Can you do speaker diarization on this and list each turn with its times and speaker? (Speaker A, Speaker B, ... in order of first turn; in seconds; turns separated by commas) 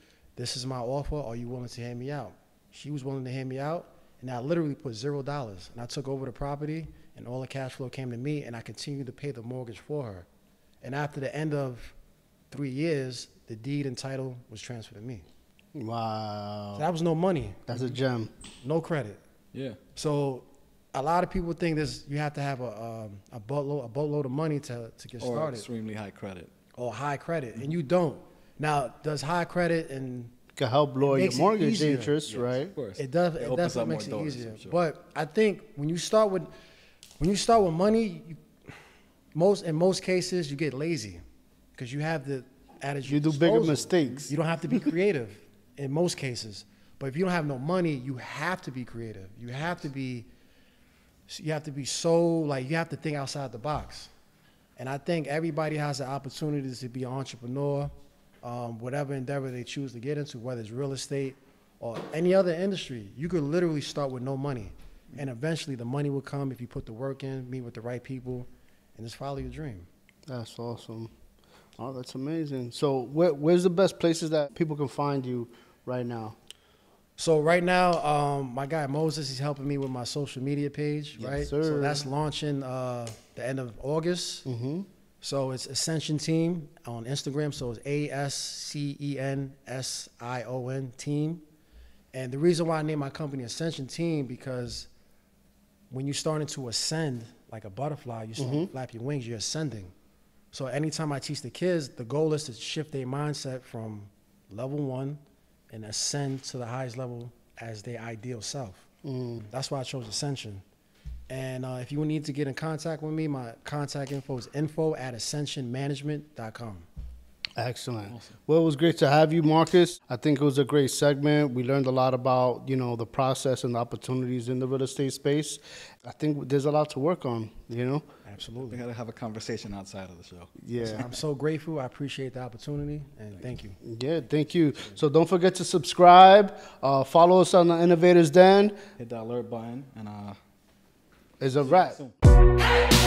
Speaker A: 0.3-10.3, Speaker A: 10.8-11.9, Speaker A: 12.5-15.2, Speaker B: 15.7-16.8, Speaker A: 16.7-17.9, Speaker B: 17.7-18.3, Speaker A: 18.6-19.2, Speaker C: 19.5-19.8, Speaker A: 19.9-25.6, Speaker C: 25.2-26.5, Speaker A: 26.8-30.3, Speaker B: 30.6-32.7, Speaker A: 31.0-32.1, Speaker C: 32.3-34.8, Speaker A: 33.0-36.5, Speaker A: 37.2-38.4, Speaker A: 39.3-41.2, Speaker A: 41.7-50.3, Speaker B: 43.1-44.8, Speaker A: 51.3-54.1, Speaker A: 54.8-57.9, Speaker A: 58.4-69.9, Speaker B: 70.3-71.1, Speaker B: 71.8-76.4, Speaker A: 77.2-84.5, Speaker B: 81.2-82.0, Speaker B: 84.5-84.9, Speaker A: 85.2-91.4, Speaker A: 92.1-94.9, Speaker A: 95.9-99.9, Speaker B: 98.4-98.7, Speaker A: 100.5-108.9, Speaker B: 109.0-109.4, Speaker A: 109.4-110.6, Speaker A: 111.3-116.9, Speaker B: 117.6-128.1, Speaker A: 128.2-128.8, Speaker C: 128.7-130.5, Speaker B: 130.6-131.1, Speaker A: 130.8-133.8, Speaker B: 133.8-138.8, Speaker C: 139.0-140.4, Speaker B: 141.4-142.0, Speaker C: 141.6-142.1